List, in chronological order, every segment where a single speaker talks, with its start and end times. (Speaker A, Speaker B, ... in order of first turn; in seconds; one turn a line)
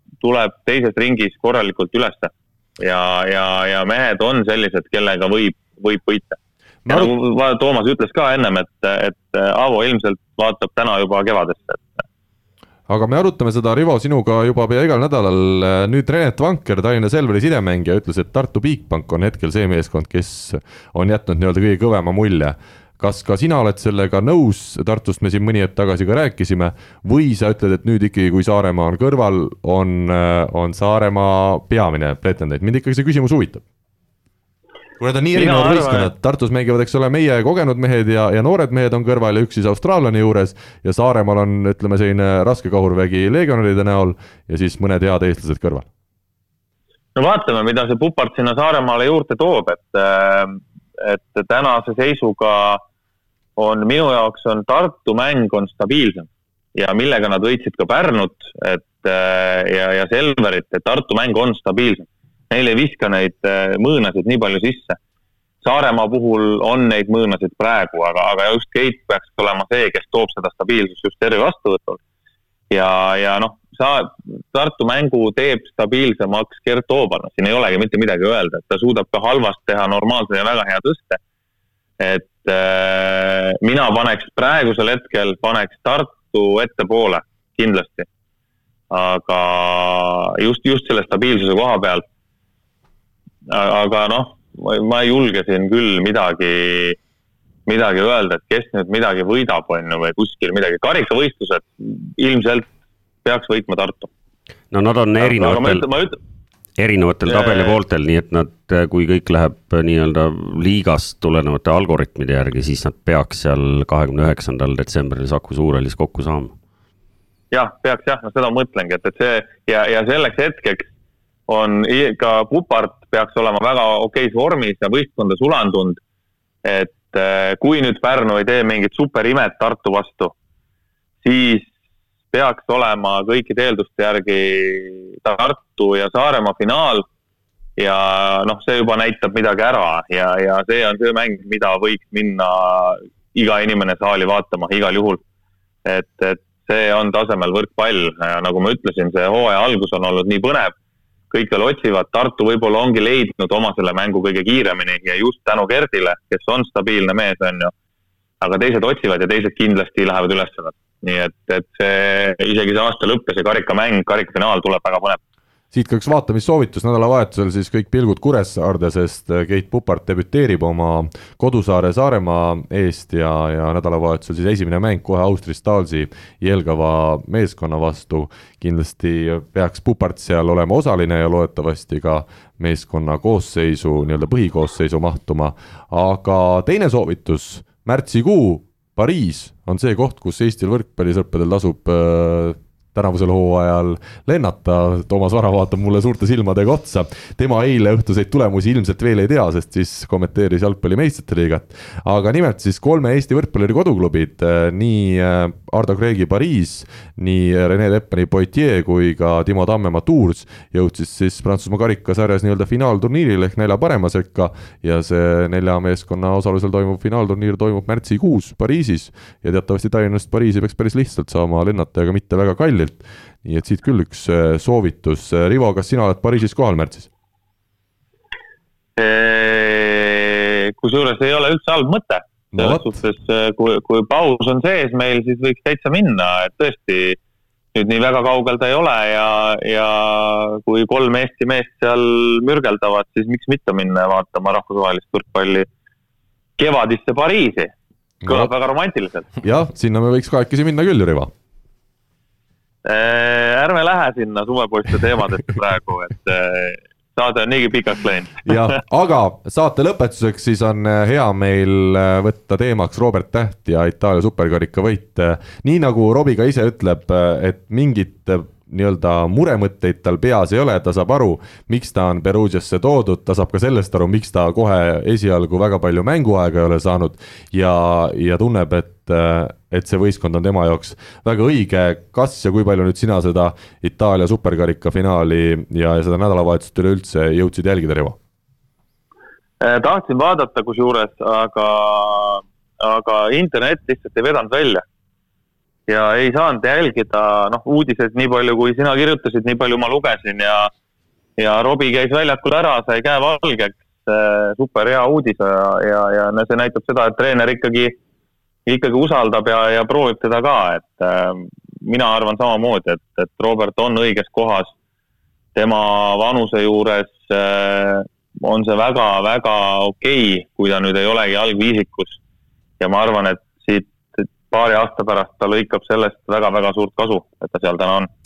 Speaker A: 0.2-6.4
Speaker B: 6.8-7.1
Speaker A: 6.9-12.0
Speaker B: 12.9-33.6
Speaker B: 35.0-45.9
Speaker A: 35.4-36.1
Speaker A: 47.1-52.8
Speaker A: 53.6-65.0
Speaker A: 65.6-72.0
Speaker A: 72.7-81.2
Speaker A: 82.0-88.1
Speaker A: 88.9-92.0
Speaker A: 93.5-97.0
Speaker A: 97.7-102.7
Speaker A: 103.2-104.1
Speaker C: 104.7-105.9
Speaker A: 105.2-106.2
Speaker C: 106.8-116.5
Speaker A: 107.3-107.8
Speaker A: 117.5-120.8
Speaker A: 121.5-126.0
Speaker A: 126.6-130.3
Speaker A: 131.2-131.7
Speaker A: 132.3-137.1
Speaker A: 137.8-145.2
Speaker A: 145.8-150.7
Speaker A: 151.3-157.7
Speaker A: 158.4-165.2
Speaker B: 165.7-227.1
Speaker A: 229.0-237.2
Speaker B: 232.5-233.0
Speaker A: 237.7-245.7
Speaker A: 246.6-247.7
Speaker B: 248.2-248.5
Speaker A: 248.3-249.3
Speaker B: 249.4-251.3
Speaker A: 252.9-258.8
Speaker B: 258.5-288.2
Speaker A: 289.6-294.8
Speaker A: 295.9-300.7
Speaker A: 301.4-308.0
Speaker A: 308.7-314.7
Speaker A: 315.6-322.2
Speaker A: 322.8-328.1